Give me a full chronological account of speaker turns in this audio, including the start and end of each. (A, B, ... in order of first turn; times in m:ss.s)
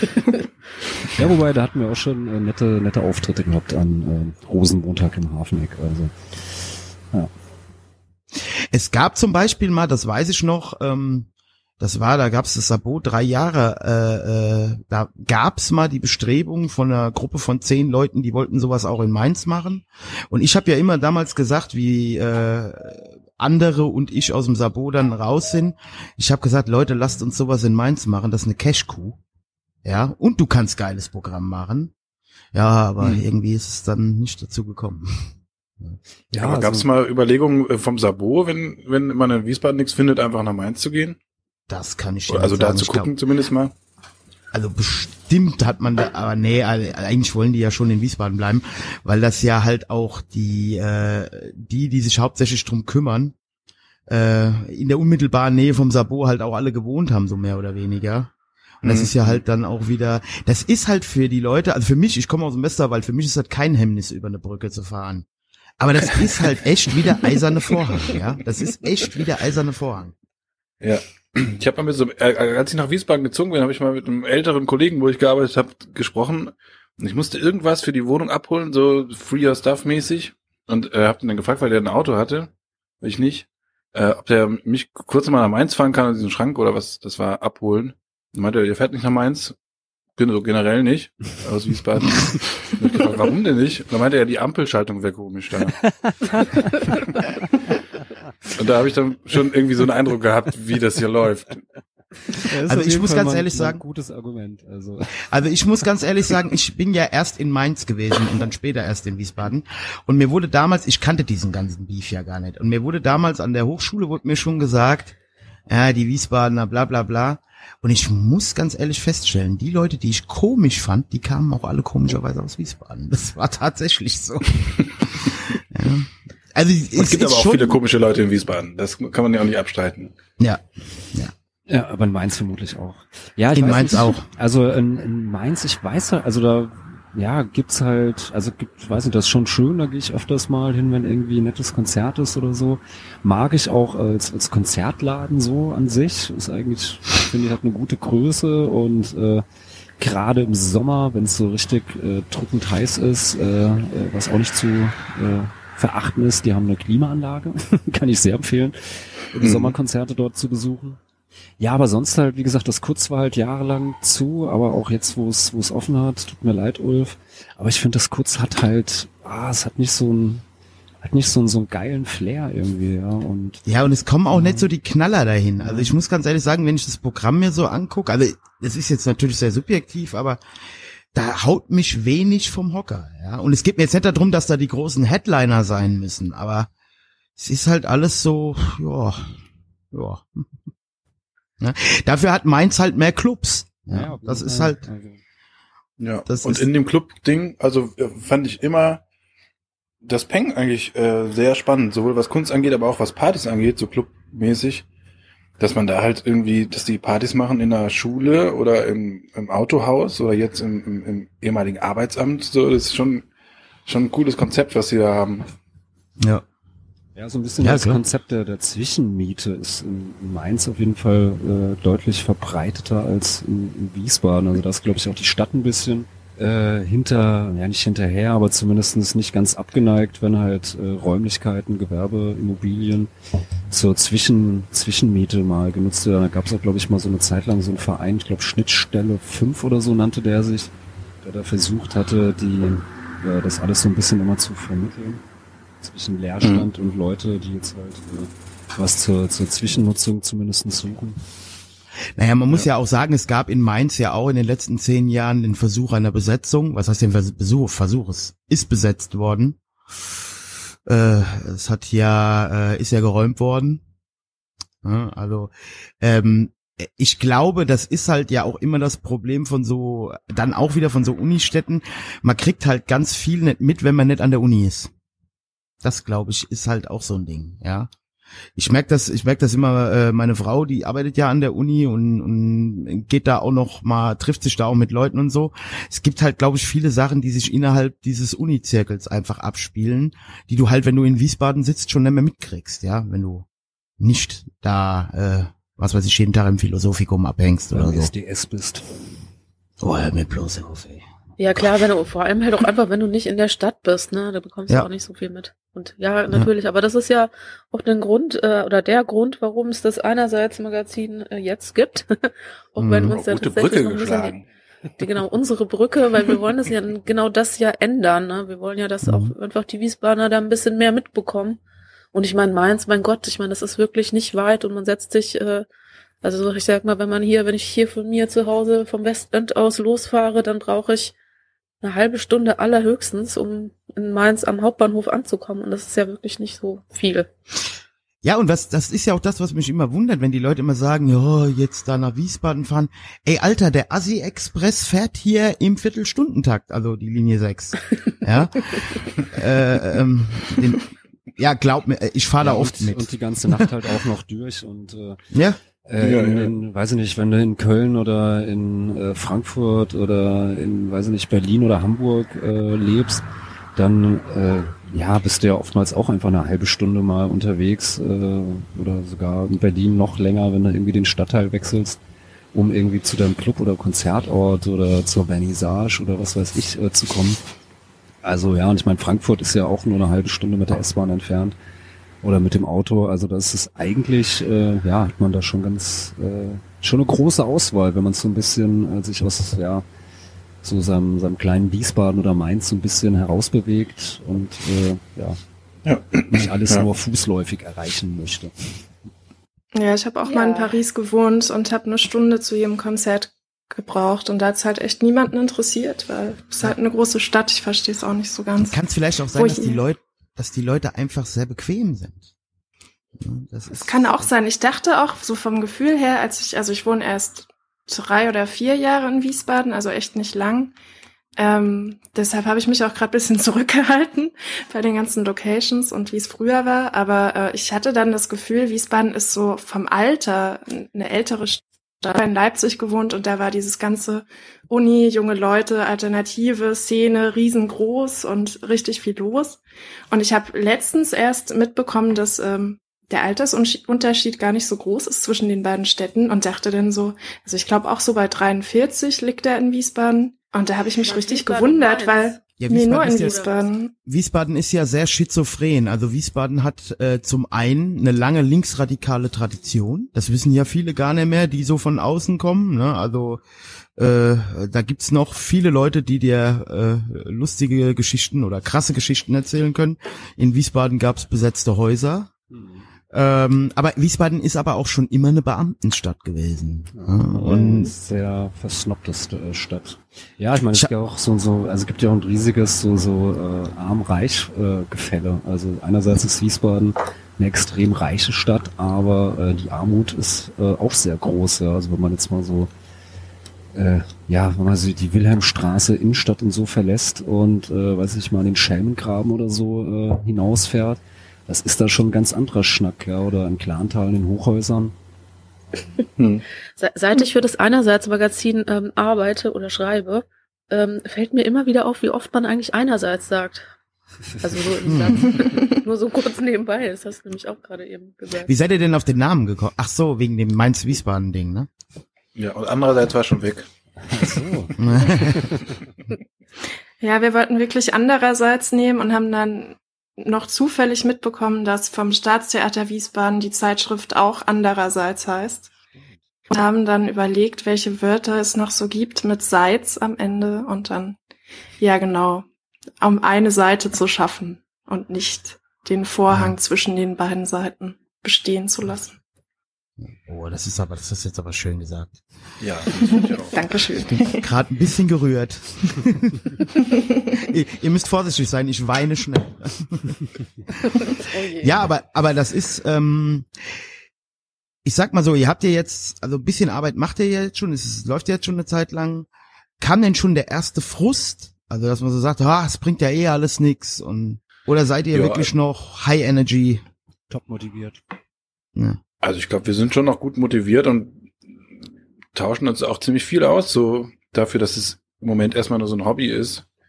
0:01.1-0:07.3 A
0:08.4-0:11.3 B
0:11.8-0:29.2 B
0:29.8-0:31.9 B
0:32.5-0:35.3 B
0:36.3-0:36.9 A
0:36.4-0:41.2 C
0:41.7-0:43.1 B
0:42.3-0:43.7 C
0:44.5-0:53.4 B
0:54.1-0:58.3 B
0:58.8-0:59.4 C
0:58.8-1:05.3 B
1:05.8-1:10.1 B
1:10.8-1:22.5 C
1:23.0-1:29.6 C
1:30.2-1:35.9 C
1:38.6-1:41.6 C
1:42.4-1:45.2 A
1:42.7-1:43.8 B
1:45.3-1:55.2 B
1:55.7-2:07.8 B
2:07.0-2:10.1 C
2:10.4-2:11.3 B
2:11.7-2:29.4 A
2:13.5-2:14.2 B
2:30.0-2:41.0 A
2:39.4-2:39.8 C
2:41.6-2:50.4 A
2:51.0-2:53.6 A
2:53.7-3:00.4 B
2:54.3-2:54.7 A
2:55.6-2:55.9 A
3:01.1-3:06.7 B
3:07.4-3:09.4 B
3:09.9-3:10.4 B
3:11.6-3:14.8 B
3:13.9-3:15.2 A
3:16.0-3:19.0 C
3:16.3-3:16.7 B
3:20.0-3:24.9 C
3:25.6-3:33.3 C
3:33.9-3:35.5 C
3:37.2-3:53.1 A
3:37.6-3:38.0 B
3:53.7-4:00.7 A
4:01.2-4:05.2 A
4:05.8-4:11.2 A
4:06.4-4:06.7 C
4:12.2-4:19.6 B
4:20.9-4:23.8 B
4:24.8-4:34.9 B
4:35.8-4:37.9 B
4:38.6-4:53.5 B
4:54.0-4:58.1 B
4:57.7-4:58.8 A
4:59.8-5:01.0 B
5:01.4-5:14.4 D
5:12.8-5:13.2 B
5:13.1-5:14.4 C
5:15.0-5:21.6 D
5:19.0-5:19.4 B
5:22.1-5:25.7 D
5:26.2-5:31.1 D
5:31.8-5:37.3 D
5:38.2-5:53.1 B
5:52.4-5:55.2 A
5:55.3-5:55.6 B
5:55.8-6:03.2 A
5:56.0-5:56.5 C
6:03.8-6:12.0 A
6:12.5-6:17.4 A
6:18.2-6:21.6 A
6:22.2-6:29.8 A
6:30.6-6:35.4 A
6:35.9-6:36.8 C
6:36.3-6:38.5 A
6:39.8-6:48.8 E
6:40.2-6:40.8 D
6:48.7-6:52.3 B
6:49.4-6:49.8 E
6:53.2-6:54.3 B
6:53.8-7:00.7 E
7:01.4-7:33.9 E
7:31.0-7:32.4 D
7:32.6-7:33.4 B
7:33.1-7:33.6 D
7:34.0-7:43.4 B
7:44.0-7:52.3 B
7:52.5-7:52.8 A
7:53.1-7:57.9 B
7:57.0-8:12.7 A
8:13.8-8:24.9 A
8:26.2-8:26.4 C
8:26.8-8:33.7 D
8:34.3-8:35.0 A
8:34.4-8:38.5 D
8:34.8-8:35.3 B
8:38.4-8:41.7 B
8:42.4-8:43.7 C
8:44.1-8:44.7 A
8:44.8-8:45.4 B
8:47.0-8:55.7 E
8:56.5-9:01.2 E
9:01.8-9:02.4 E
9:03.0-9:09.2 E
9:06.3-9:06.6 B
9:10.0-9:12.2 B
9:12.6-9:13.6 C
9:13.0-9:14.5 E
9:14.1-9:16.5 B
9:17.4-9:20.1 B
9:21.2-9:21.8 D
9:21.6-9:23.5 B
9:24.8-9:29.3 B
9:29.8-9:36.8 B
9:35.1-9:35.5 C
9:37.3-9:38.0 A
9:39.2-9:41.3 C
9:42.3-9:46.7 C